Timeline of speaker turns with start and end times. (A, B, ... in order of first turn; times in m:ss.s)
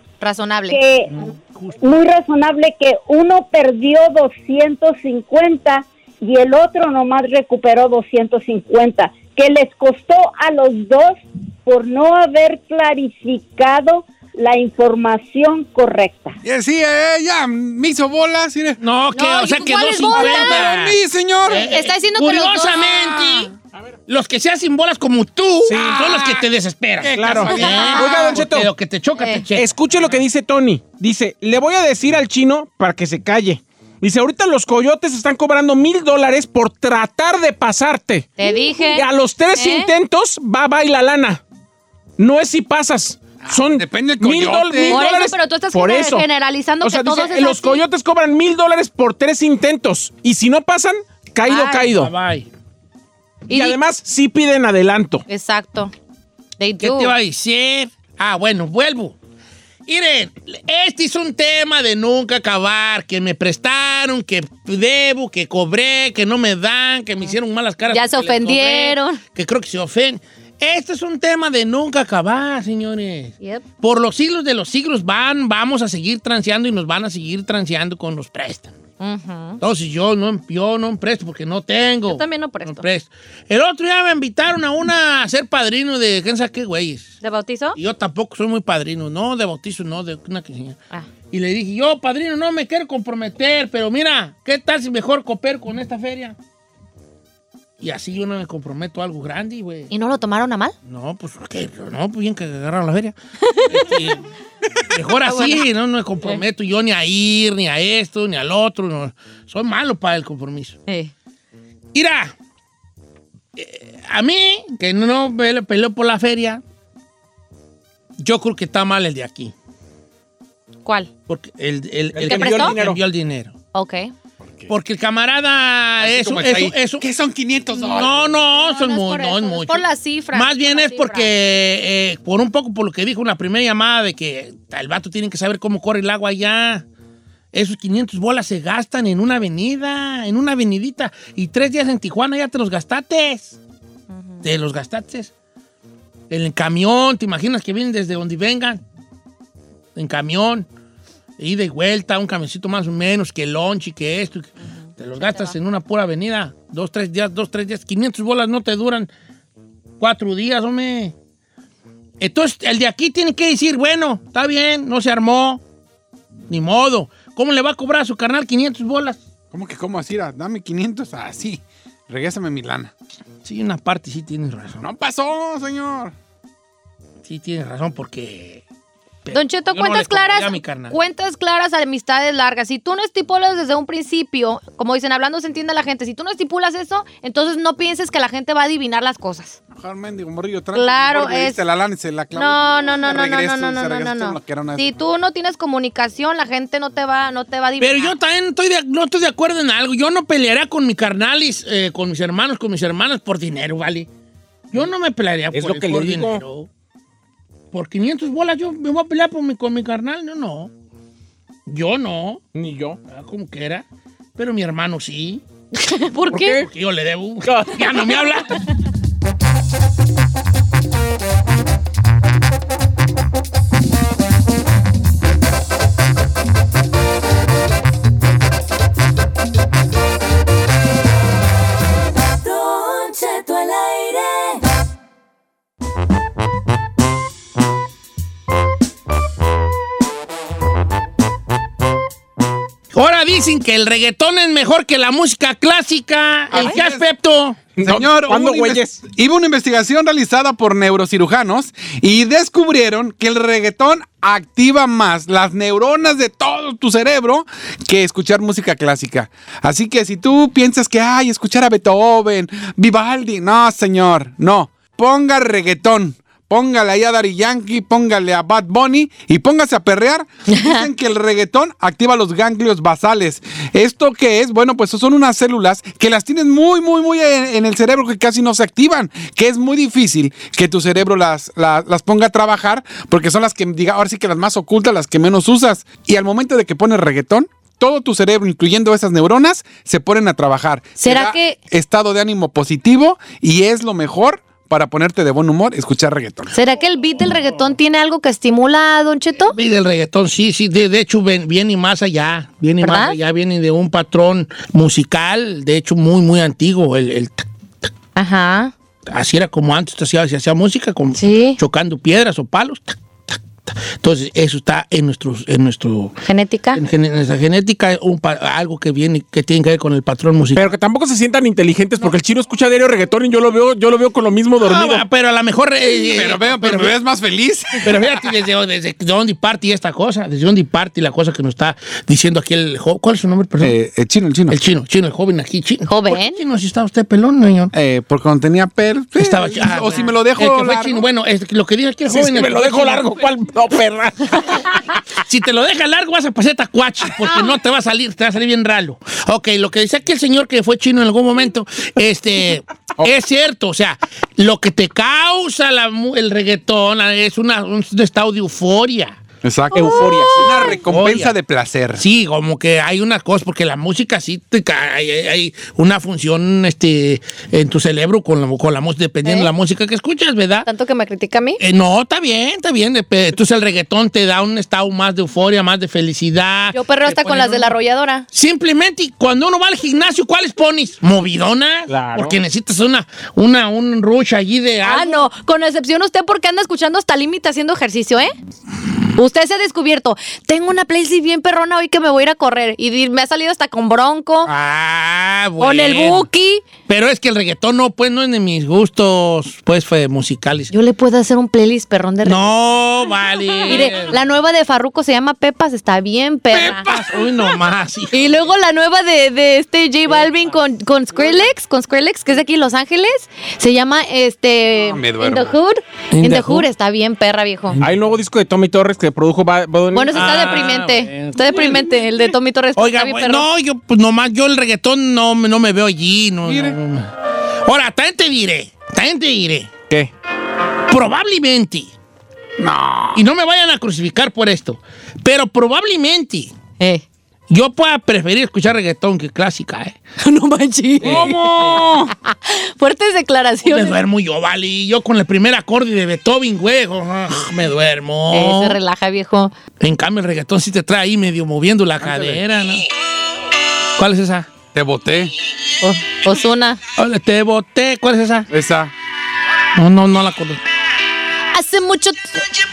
0:00.2-0:00.8 A
0:00.7-0:01.2 B
0:01.1-0:02.0 C
0:01.8-0:16.4 B
0:16.4-0:18.8 D
0:18.8-0:23.5 C
0:19.1-0:20.7 A
0:20.1-0:21.6 D
0:21.5-0:23.5 A
0:24.1-0:29.7 C
0:25.6-0:26.0 E
0:25.7-0:26.4 D
0:27.0-0:28.4 D
0:27.1-0:28.7 E
0:27.6-0:28.0 A
0:29.2-0:29.4 A
0:29.5-0:41.4 E
0:38.4-0:39.9 A
0:42.2-0:46.2 E
0:43.4-0:45.0 D
0:44.8-0:47.8 A
0:46.8-0:52.1 E
0:51.4-0:51.9 A
0:51.8-0:52.5 C
0:53.5-0:53.8 A
0:53.5-0:55.2 E
0:55.3-0:55.9 A
0:56.6-0:57.1 A
0:56.8-0:59.2 C
0:59.9-1:18.7 C
1:07.9-1:09.2 A
1:19.0-1:19.6 A
1:19.6-1:27.2 C
1:22.1-1:22.8 A
1:27.2-1:27.8 A
1:27.7-1:30.8 C
1:31.3-1:36.4 C
1:37.8-1:39.9 C
1:39.9-1:40.7 A
1:40.8-1:44.2 C
1:43.4-1:43.8 A
1:44.9-1:50.8 C
1:45.2-1:45.7 A
1:50.9-1:51.1 A
1:51.9-1:52.3 C
1:53.6-1:56.6 C
1:58.2-1:59.5 C
2:00.8-2:01.1 A
2:01.3-2:03.5 C
2:02.1-2:03.0 E
2:02.2-2:02.8 A
2:03.7-2:04.1 A
2:04.4-2:04.7 D
2:04.7-2:07.0 C
2:06.0-2:08.3 D
2:07.7-2:16.8 C
2:08.5-2:11.3 A
2:17.5-2:23.6 C
2:24.1-2:24.4 A
2:24.4-2:25.3 C
2:26.3-2:28.8 C
2:29.9-2:30.7 C
2:31.4-2:39.1 C
2:34.7-2:35.5 A
2:40.0-2:41.1 C
2:42.2-2:45.6 C
2:46.5-2:49.2 C
2:49.5-2:52.9 D
2:53.4-2:54.8 C
2:54.8-2:56.1 D
2:57.2-2:58.6 C
2:59.2-3:01.0 C
2:59.3-3:09.6 A
3:09.7-3:14.9 D
3:10.7-3:11.6 A
3:12.3-3:18.1 A
3:17.8-3:24.1 C
3:24.7-3:26.7 C
3:25.5-3:26.4 E
3:27.7-3:30.7 C
3:31.7-3:32.4 C
3:32.5-3:33.0 E
3:33.1-3:33.8 C
3:34.4-3:35.4 C
3:35.7-3:36.6 A
3:36.3-3:36.6 E
3:36.4-3:38.6 C
3:37.4-3:38.2 E
3:52.3-3:54.7 F
4:02.9-4:07.6 C
4:06.5-4:07.0 D
4:07.8-4:09.0 E
4:07.8-4:56.5 D
4:30.5-4:30.9 A
4:51.0-4:51.6 A
4:56.5-4:59.6 A
4:59.4-5:07.9 C
5:02.8-5:03.2 A
5:08.1-5:08.7 A
5:09.0-5:16.2 C
5:11.2-5:11.6 A
5:16.2-5:16.8 A
5:16.7-5:20.7 C
5:20.5-5:25.0 E
5:24.6-5:26.9 C
5:26.0-5:28.1 D
5:27.8-5:33.8 C
5:33.6-5:34.6 D
5:34.5-5:37.7 C
5:35.9-5:36.4 A
5:37.7-5:41.0 D
5:39.1-5:43.1 C
5:42.1-5:45.0 E
5:44.4-5:59.2 C
5:59.4-6:02.0 D
5:59.7-6:00.7 E
6:00.6-6:01.3 C
6:02.0-6:10.7 C
6:09.2-6:09.5 A
6:10.6-6:11.6 A
6:11.6-6:17.7 C
6:16.7-6:18.2 A
6:18.3-6:25.3 C
6:21.9-6:22.4 E
6:24.8-6:28.3 A
6:29.1-6:34.5 A
6:34.4-6:36.2 C
6:35.6-6:36.6 A
6:36.9-6:40.7 C
6:40.7-6:42.5 A
6:42.2-6:44.2 C
6:43.6-6:46.8 A
6:46.5-6:47.2 D
6:46.7-6:48.3 C
6:48.1-6:57.8 A
6:54.8-6:55.6 D
6:56.1-6:56.7 C
6:57.8-7:00.7 E
6:59.9-7:03.5 A
7:00.1-7:01.9 C
7:02.8-7:07.1 C
7:06.4-7:06.8 D
7:07.6-7:09.7 C
7:10.9-7:11.9 C
7:12.6-7:13.2 D
7:13.1-7:16.5 C
7:16.8-7:17.0 A
7:17.5-7:20.0 C
7:20.2-7:24.0 A
7:21.0-7:21.8 C
7:21.0-7:22.1 D
7:23.6-7:28.8 C
7:28.3-7:29.5 A
7:29.8-7:32.8 C
7:32.0-7:32.4 D
7:34.0-7:34.5 C
7:34.7-7:35.3 D
7:35.8-7:36.8 A
7:37.0-7:38.5 C
7:38.5-7:38.9 D
7:39.7-7:40.6 C
7:41.5-7:42.4 A